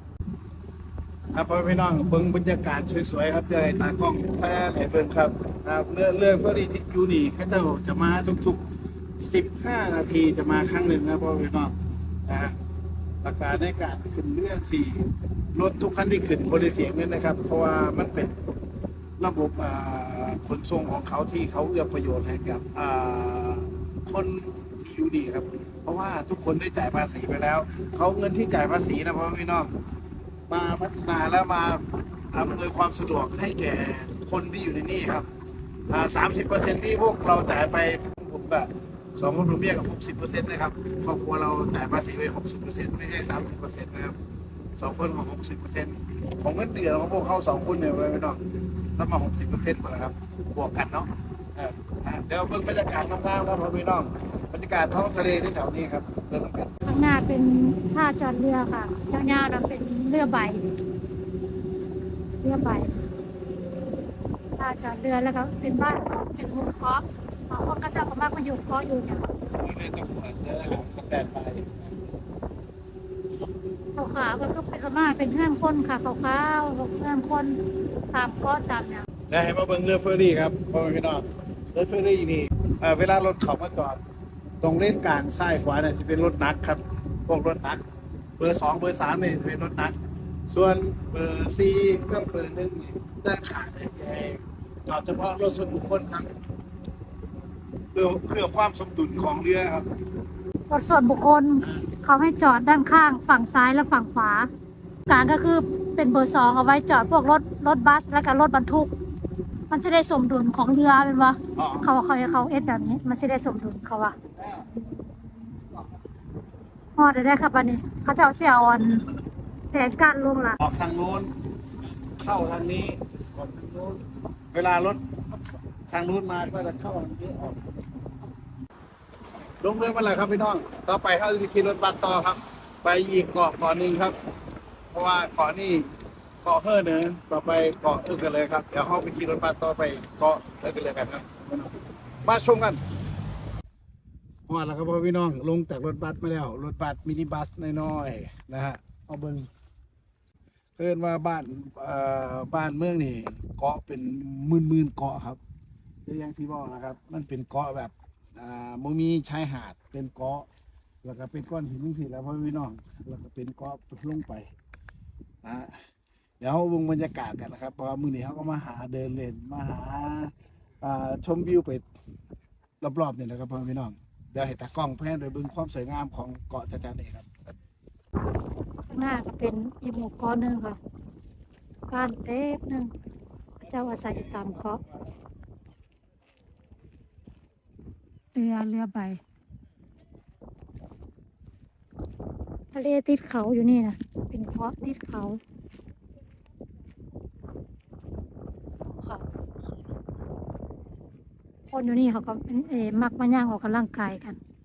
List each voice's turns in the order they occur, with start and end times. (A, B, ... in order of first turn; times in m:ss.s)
0:01.3-0:08.6 A
0:09.2-0:11.8 A
0:12.3-0:12.6 A
0:13.2-0:18.4 A
0:19.2-0:29.7 A
0:30.5-0:35.3 A
0:35.9-0:44.2 A
0:44.8-0:48.4 A
0:48.9-0:56.7 A
0:56.9-1:00.8 B
1:02.4-1:03.0 B
1:04.6-1:09.2 B
1:09.5-1:11.9 A
1:14.0-1:17.6 B
1:18.1-1:19.0 B
1:19.3-1:24.0 A
1:24.6-1:27.8 A
1:28.4-1:30.0 A
1:30.5-1:36.3 A
1:37.9-1:39.9 A
1:40.7-1:44.5 B
1:45.1-1:48.9 B
1:49.7-1:54.2 B
1:51.6-1:51.9 A
1:57.0-1:59.1 B
1:59.7-2:00.6 B
2:00.6-2:01.3 A
2:02.2-2:05.0 A
2:05.9-2:07.8 A
2:09.6-2:14.2 A
2:14.9-2:15.9 A
2:16.4-2:22.8 A
2:24.5-2:29.5 A
2:30.8-2:35.4 A
2:36.1-2:40.5 A
2:41.0-2:44.5 A
2:45.4-2:45.8 A
2:46.4-2:51.8 A
2:52.8-2:57.3 A
2:58.9-3:00.8 B
3:01.9-3:02.9 B
3:03.7-3:04.8 B
3:08.4-3:09.2 B
3:12.7-3:15.4 B
3:18.9-3:19.2 B
3:21.7-3:24.4 B